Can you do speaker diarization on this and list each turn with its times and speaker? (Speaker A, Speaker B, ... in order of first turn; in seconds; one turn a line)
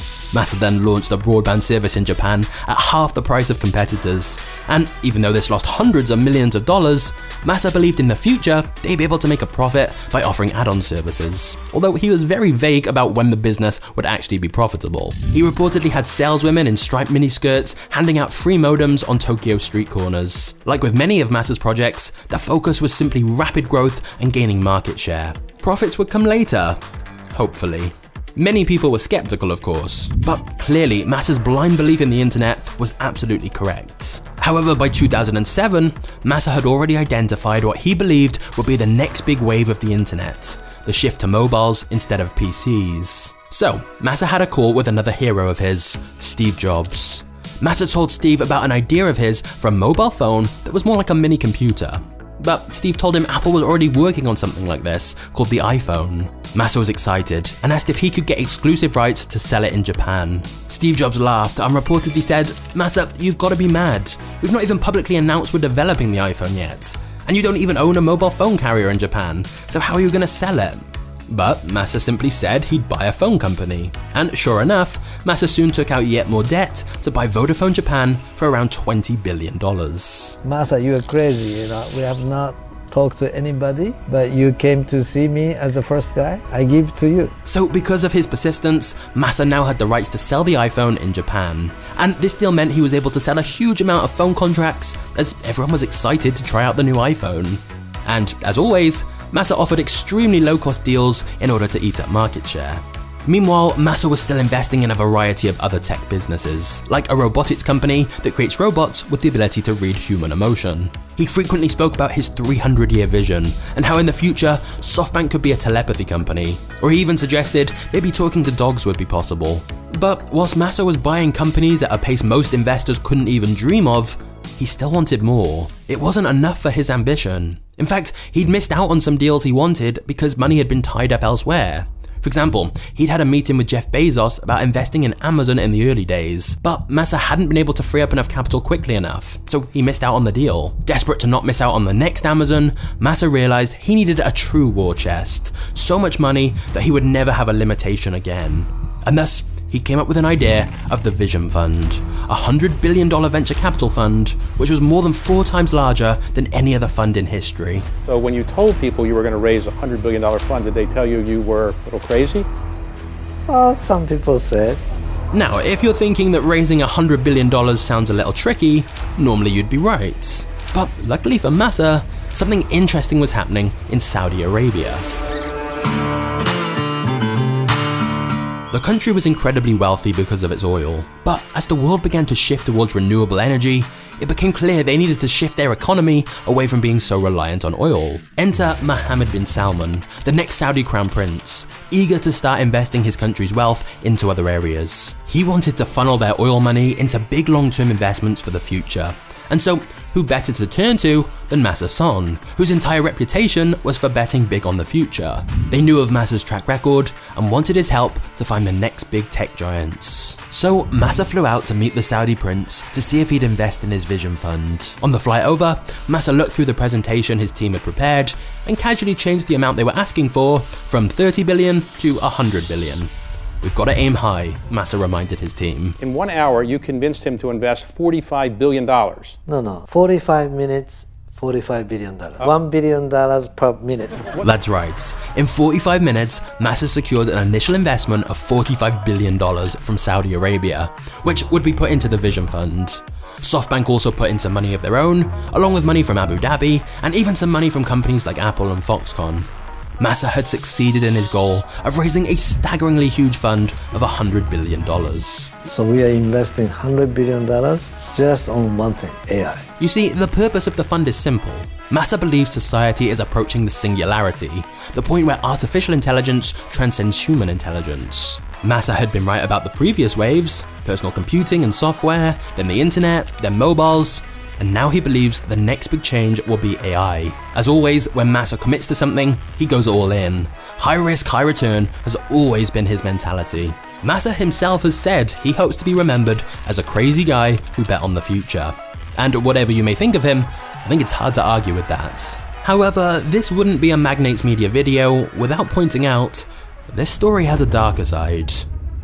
Speaker A: 0.3-80.4
Speaker B: 80.4-87.3
Speaker A: 87.5-157.9
Speaker C: 158.1-162.5
Speaker B: 163.5-164.8
Speaker A: 165.3-175.1
Speaker A: 178.7-226.0
Speaker C: 226.0-229.4
Speaker B: 229.5-234.3
Speaker A: 234.4-249.5
Speaker A: 250.0-255.5
Speaker B: 255.6-259.7
Speaker A: 259.8-298.7